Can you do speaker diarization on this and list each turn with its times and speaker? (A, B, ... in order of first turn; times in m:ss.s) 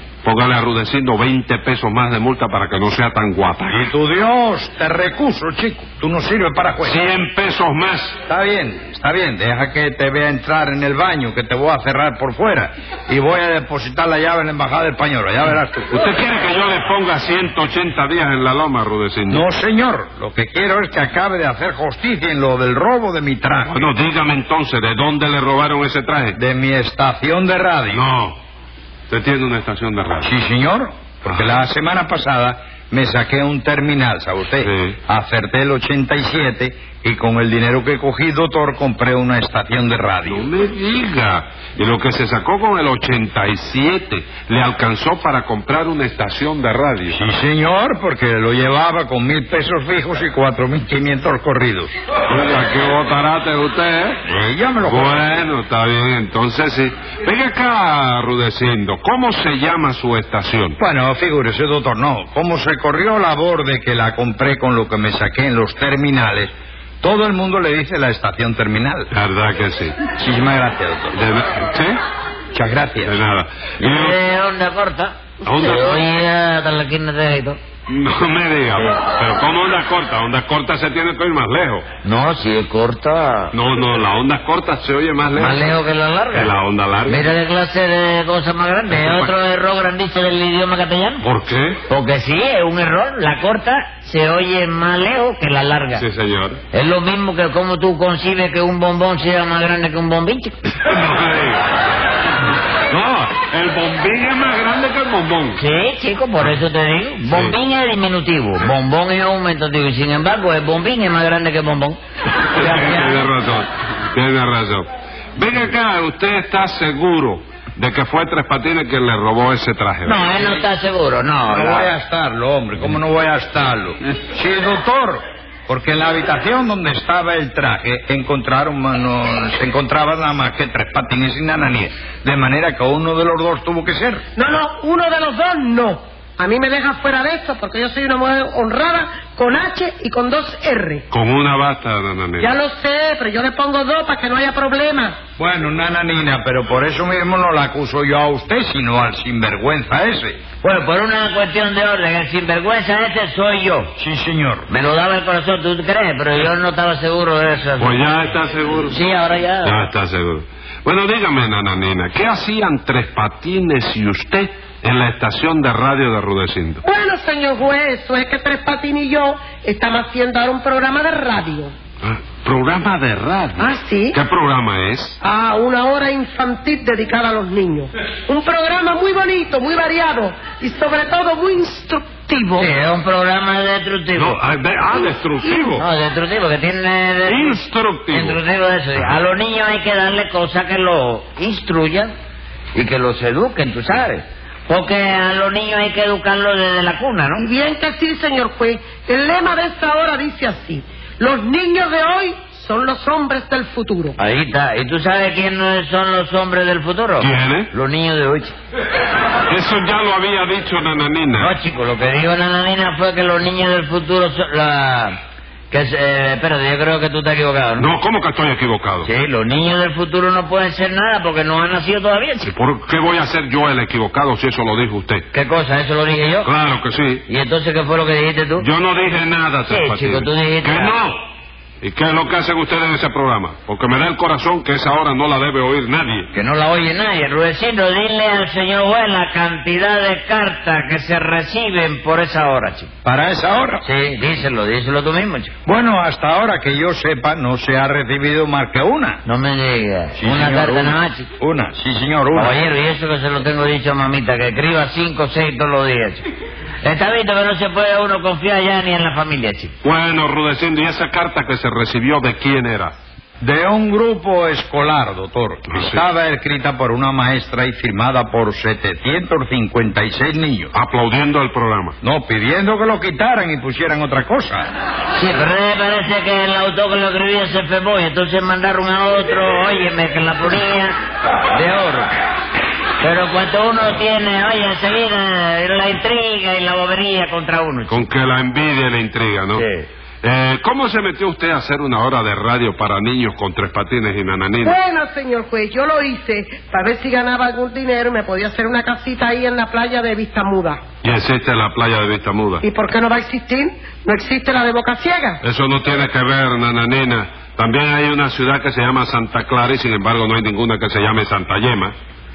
0:00.2-0:03.9 A
0:03.7-0:07.0 B
0:06.8-0:08.2 A
0:08.3-0:15.9 B
0:15.9-0:19.5 A
0:19.3-0:23.8 B
0:23.7-0:26.4 A
0:26.4-0:28.0 B
0:27.9-0:28.4 A
0:29.1-0:30.3 A
0:30.2-0:40.5 B
0:31.3-0:31.6 A
0:34.6-0:35.0 A
0:40.2-0:47.2 A
0:47.1-0:51.9 B
0:52.3-0:54.2 A
0:54.3-0:55.4 B
0:54.8-1:00.8 A
1:00.8-1:09.1 B
1:09.1-1:10.0 A
1:10.1-1:11.2 B
1:11.1-1:12.0 A
1:12.5-1:13.2 B
1:13.0-1:14.2 A
1:13.8-1:17.6 C
1:15.4-1:16.0 A
1:17.9-1:21.9 A
1:22.0-1:23.5 C
1:23.5-1:25.7 A
1:25.4-1:26.5 C
1:26.3-1:27.3 A
1:27.1-1:31.2 C
1:28.9-1:29.3 A
1:31.2-1:31.8 A
1:31.9-1:36.0 C
1:36.0-1:36.6 A
1:36.7-1:40.7 C
1:40.8-1:41.7 A
1:42.9-1:45.6 A
1:45.6-1:52.0 C
1:47.3-1:47.6 A
1:52.5-2:00.6 A
1:52.5-1:53.3 C
2:00.0-2:01.9 C
2:01.5-2:14.2 B
2:14.4-2:21.0 D
2:21.1-2:22.5 A
2:22.4-2:25.2 D
2:25.4-2:30.4 B
2:30.6-2:33.9 C
2:34.0-2:34.7 B
2:34.7-2:38.0 C
2:37.8-2:39.0 A
2:38.9-2:39.9 C
2:39.6-2:46.8 A
2:46.8-2:51.7 D
2:52.0-2:55.2 A
2:53.6-2:54.2 D
2:55.2-3:02.7 D
3:02.6-3:04.4 C
3:04.2-3:05.8 A
3:05.4-3:05.8 D
3:05.8-3:12.1 C
3:07.3-3:08.4 A
3:12.8-3:17.5 C
3:17.4-3:24.2 D
3:24.2-3:28.6 C
3:27.2-3:27.7 A
3:29.5-3:31.6 A
3:31.4-3:35.2 C
3:35.7-3:37.9 C
3:37.8-3:39.1 A
3:39.0-3:42.5 C
3:42.4-3:45.3 A
3:45.3-3:46.5 C
3:46.4-3:47.3 A
3:47.3-3:48.7 C
3:48.6-3:51.2 A
3:49.7-3:51.0 C
3:51.8-3:56.3 A
3:56.3-4:02.9 C
4:03.0-4:03.8 B
4:03.8-4:05.5 C
4:05.6-4:09.2 B
4:09.2-4:11.3 C
4:10.2-4:12.6 B
4:12.3-4:16.2 C
4:16.8-4:19.7 C
4:19.8-4:22.9 A
4:23.4-4:30.7 B
4:25.7-4:26.0 A
4:30.7-4:32.0 A
4:32.0-4:34.7 B
4:35.1-4:41.0 C
4:41.5-4:42.1 C
4:43.0-4:48.0 C
4:47.9-4:49.6 A
4:49.5-4:49.9 C
4:50.2-4:54.8 A
4:54.6-5:00.8 D
5:01.0-5:02.7 A
5:02.6-5:05.4 D
5:05.4-5:11.9 A